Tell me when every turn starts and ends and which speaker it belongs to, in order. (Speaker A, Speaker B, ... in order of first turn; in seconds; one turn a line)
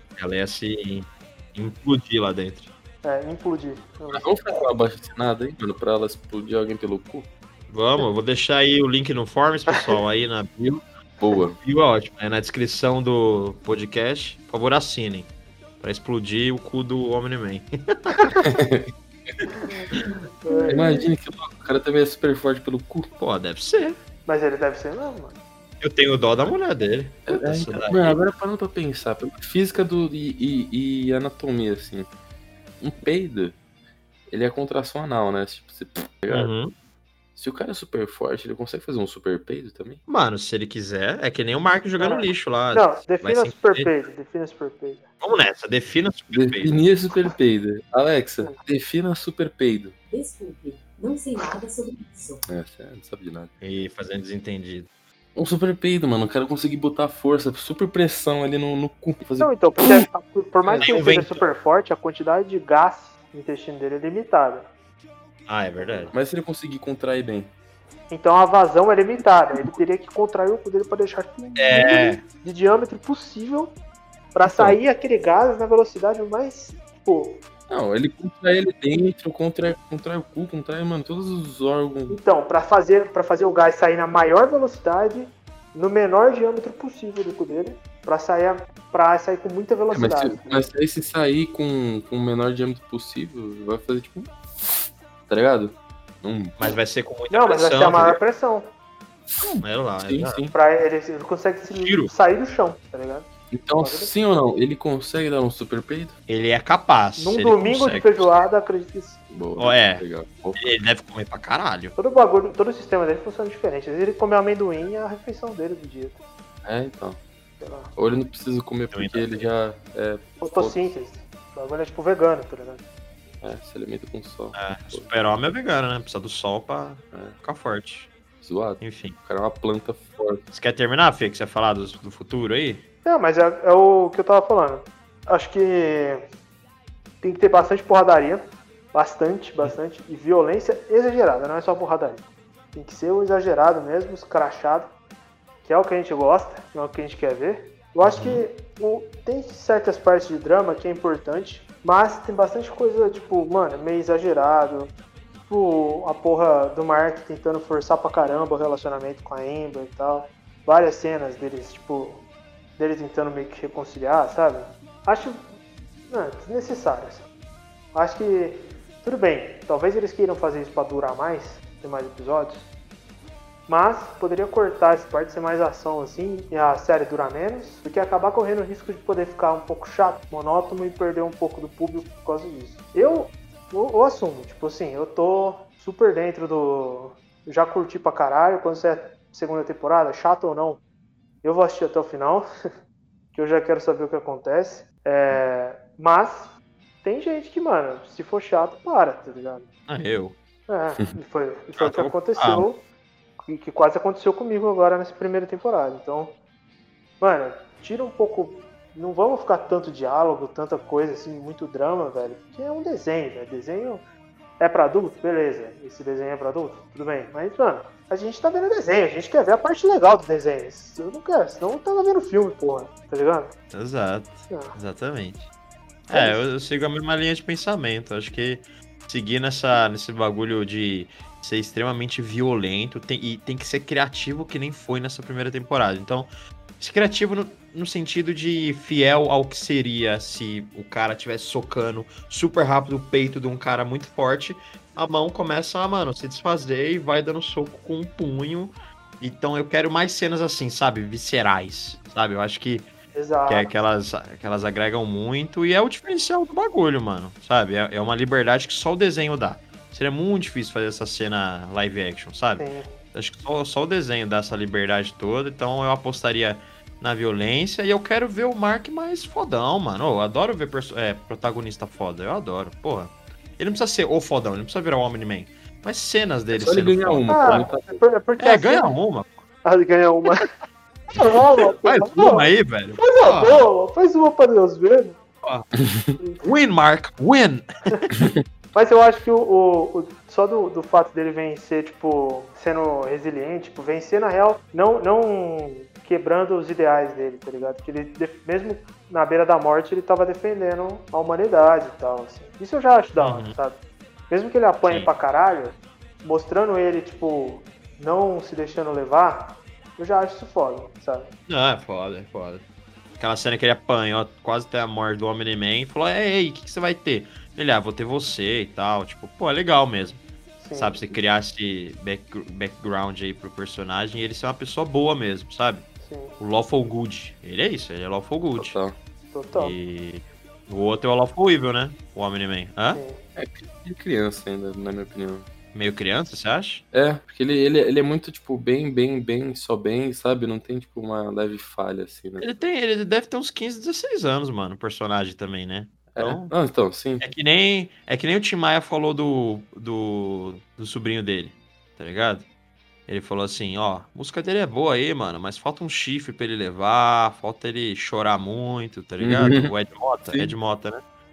Speaker A: 0.2-2.7
Speaker B: 3.0-4.5
Speaker C: 4.1-7.3
Speaker A: 7.7-10.8
Speaker B: 9.7-10.0
Speaker C: 11.2-11.6
Speaker A: 11.3-15.3
Speaker A: 15.8-18.4
Speaker C: 18.4-18.9
Speaker B: 19.5-19.9
Speaker A: 19.9-20.2
Speaker B: 20.4-21.1
Speaker C: 20.7-23.1
Speaker A: 23.2-24.0
Speaker B: 24.2-25.4
Speaker A: 25.8-28.2
Speaker C: 27.3-32.1
Speaker C: 32.8-33.5
Speaker C: 34.3-36.5
Speaker A: 36.3-36.7
Speaker C: 37.4-40.0
Speaker A: 40.1-43.9
Speaker B: 42.0-45.1
Speaker A: 45.2-46.8
Speaker C: 46.3-49.9
Speaker D: 50.1-52.5
Speaker C: 52.5-53.5
Speaker A: 53.6-54.9
Speaker C: 55.3-60.0
Speaker B: 59.4-64.7
Speaker A: 60.7-61.5
Speaker A: 65.5-66.1
Speaker B: 65.8-66.1
Speaker C: 66.1-67.5
Speaker B: 68.1-73.8
Speaker C: 69.5-69.8
Speaker A: 71.6-72.2
Speaker B: 74.3-77.4
Speaker C: 74.5-74.8
Speaker C: 77.7-82.2
Speaker B: 82.1-90.7
Speaker C: 89.9-94.3
Speaker C: 95.3-96.8
Speaker A: 96.6-98.2
Speaker B: 97.3-98.7
Speaker C: 99.3-100.5
Speaker A: 99.6-100.4
Speaker B: 100.5-104.1
Speaker A: 101.7-102.1
Speaker C: 103.5-106.2
Speaker A: 106.3-108.5
Speaker B: 107.2-109.2
Speaker C: 109.3-110.6
Speaker A: 109.6-110.0
Speaker A: 110.5-111.9
Speaker B: 112.0-116.2
Speaker C: 116.6-117.2
Speaker B: 117.6-117.9
Speaker C: 118.0-120.9
Speaker A: 118.9-119.4
Speaker B: 120.4-122.8
Speaker C: 123.4-125.1
Speaker A: 124.5-128.1
Speaker C: 128.4-130.4
Speaker A: 128.8-129.2
Speaker A: 130.5-132.8
Speaker B: 133.0-136.2
Speaker B: 137.2-144.9
Speaker B: 145.6-154.9
Speaker A: 148.0-148.4
Speaker B: 155.5-162.2
Speaker B: 162.8-165.4
Speaker B: 166.1-167.2
Speaker B: 167.9-172.7
Speaker B: 173.7-190.8
Speaker B: 191.4-192.5
Speaker B: 193.3-199.7
Speaker A: 199.9-200.4
Speaker B: 200.7-202.8
Speaker A: 201.8-202.7
Speaker B: 203.4-206.4
Speaker B: 207.2-214.0
Speaker B: 214.6-223.5
Speaker A: 223.7-225.5
Speaker B: 224.5-224.8
Speaker A: 226.1-252.9
Speaker B: 226.1-226.4
Speaker B: 253.1-253.7
Speaker A: 253.5-277.7
Speaker B: 262.6-262.9
Speaker C: 276.5-278.0
Speaker B: 277.3-278.9
Speaker A: 278.4-279.4
Speaker B: 279.6-280.5
Speaker B: 281.1-285.2
Speaker A: 281.8-283.7
Speaker C: 285.8-286.1
Speaker A: 286.4-288.2
Speaker B: 288.7-311.3
Speaker A: 303.2-303.5
Speaker A: 311.5-312.6
Speaker A: 313.2-325.9
Speaker B: 320.6-321.0
Speaker B: 326.0-326.4
Speaker A: 326.4-328.8
Speaker C: 328.6-328.9
Speaker B: 329.3-329.8
Speaker A: 329.5-333.0
Speaker B: 332.9-333.2
Speaker C: 333.4-335.5
Speaker A: 335.7-336.8
Speaker C: 336.9-342.5
Speaker A: 342.4-346.5
Speaker C: 346.1-347.2
Speaker A: 347.2-352.4
Speaker A: 353.1-361.0
Speaker C: 359.2-359.7